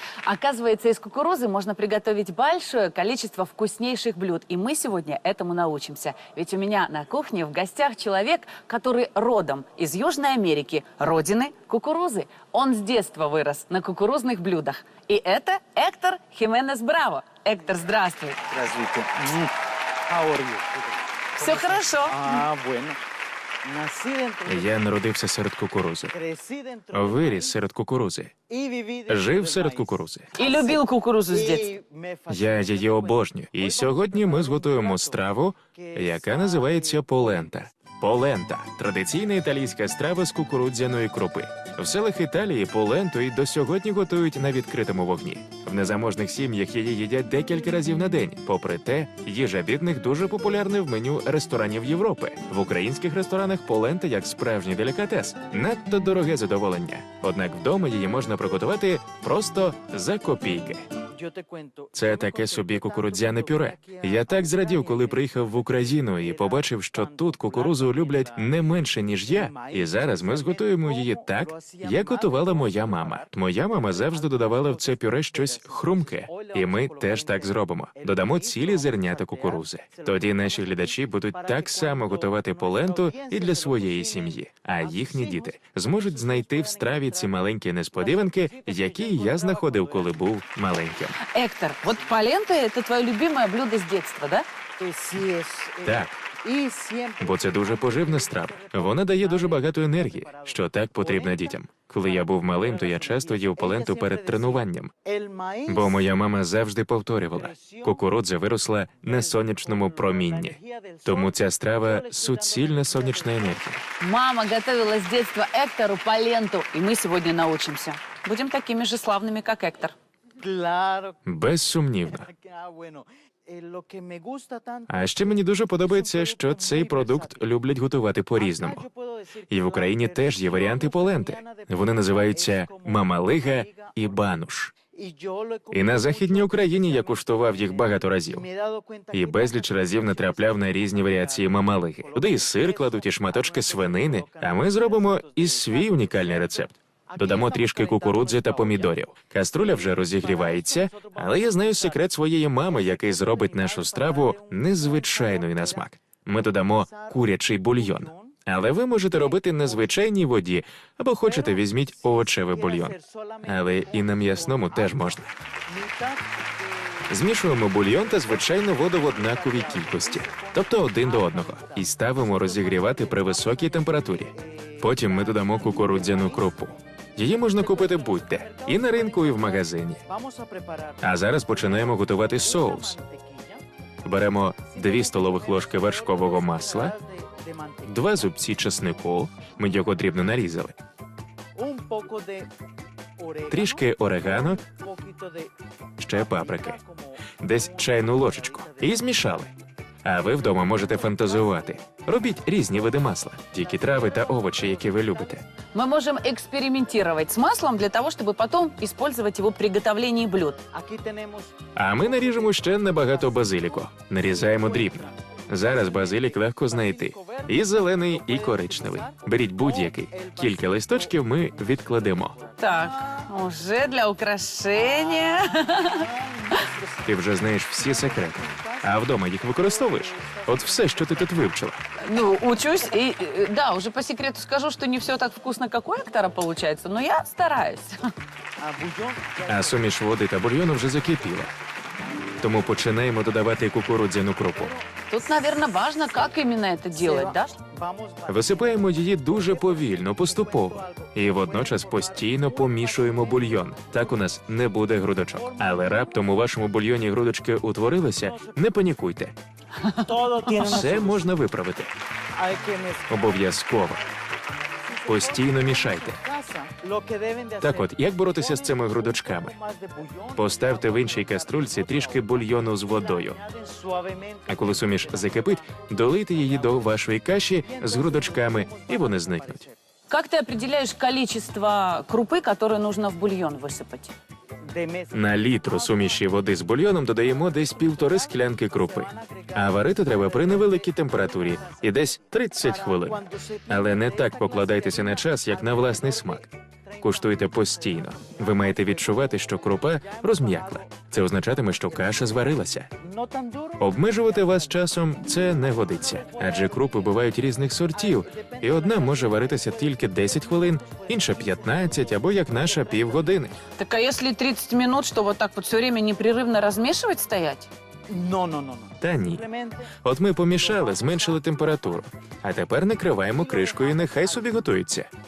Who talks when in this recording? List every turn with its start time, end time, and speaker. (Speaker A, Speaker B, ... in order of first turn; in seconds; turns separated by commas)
Speaker A: 0.2-18.4, Speaker B: 18.4-19.5, Speaker B: 20.1-23.0, Speaker A: 21.4-22.3, Speaker B: 23.6-24.9, Speaker C: 24.5-26.1, Speaker B: 26.1-27.6, Speaker C: 26.9-28.3, Speaker B: 28.5-35.2, Speaker C: 29.1-30.3, Speaker A: 30.4-31.7, Speaker C: 32.3-60.8, Speaker B: 35.7-37.3, Speaker B: 61.1-65.3, Speaker C: 61.9-91.2, Speaker B: 66.2-90.2, Speaker A: 91.2-94.5, Speaker B: 94.8-106.0, Speaker C: 95.8-96.2, Speaker C: 97.2-104.9, Speaker C: 105.7-113.8, Speaker B: 107.3-108.0, Speaker B: 109.0-113.6, Speaker A: 114.0-119.9, Speaker B: 120.4-121.2, Speaker C: 121.2-122.3, Speaker B: 122.1-127.5, Speaker C: 124.9-128.8, Speaker B: 128.4-134.2, Speaker C: 129.5-134.7, Speaker B: 134.9-149.0, Speaker C: 135.7-138.4, Speaker C: 139.1-165.3, Speaker B: 149.6-152.1, Speaker B: 152.6-155.9, Speaker B: 156.6-158.4, Speaker B: 159.1-160.0, Speaker B: 161.2-176.8, Speaker C: 167.1-180.0, Speaker B: 177.3-183.6, Speaker C: 181.0-183.0, Speaker C: 184.0-186.9, Speaker B: 184.7-188.3, Speaker C: 187.8-190.8, Speaker B: 191.6-192.5, Speaker B: 193.2-195.5, Speaker C: 193.5-194.6, Speaker C: 196.0-196.8, Speaker B: 196.1-199.2, Speaker C: 197.4-199.5, Speaker C: 200.0-205.4, Speaker B: 200.4-202.0, Speaker B: 203.6-205.4, Speaker A: 205.7-210.6, Speaker B: 210.7-223.3, Speaker C: 211.7-222.4, Speaker A: 222.6-226.6, Speaker B: 224.8-227.2, Speaker C: 227.1-231.8, Speaker B: 227.8-231.5, Speaker A: 232.0-238.0, Speaker B: 238.6-240.0, Speaker C: 239.5-241.5, Speaker B: 240.8-241.4, Speaker C: 242.4-244.7, Speaker B: 244.5-244.9, Speaker A: 245.1-247.5, Speaker B: 246.9-254.3, Speaker C: 248.3-259.3, Speaker B: 255.3-256.4, Speaker B: 258.1-258.6, Speaker A: 259.8-260.6, Speaker B: 259.9-261.3, Speaker C: 260.5-261.9, Speaker B: 262.3-264.0, Speaker C: 263.1-264.0, Speaker B: 264.8-277.0, Speaker C: 265.1-266.2, Speaker C: 267.6-269.5, Speaker C: 270.4-273.4, Speaker C: 274.5-279.6, Speaker B: 277.6-279.7, Speaker A: 280.1-284.1, Speaker B: 284.7-286.3, Speaker C: 285.1-296.5, Speaker B: 287.2-307.3, Speaker C: 297.0-302.9, Speaker C: 303.8-313.6, Speaker B: 307.9-313.3, Speaker A: 313.7-317.7, Speaker B: 318.1-320.0, Speaker C: 319.0-319.4, Speaker C: 320.0-325.1, Speaker B: 320.5-321.7, Speaker B: 323.3-324.6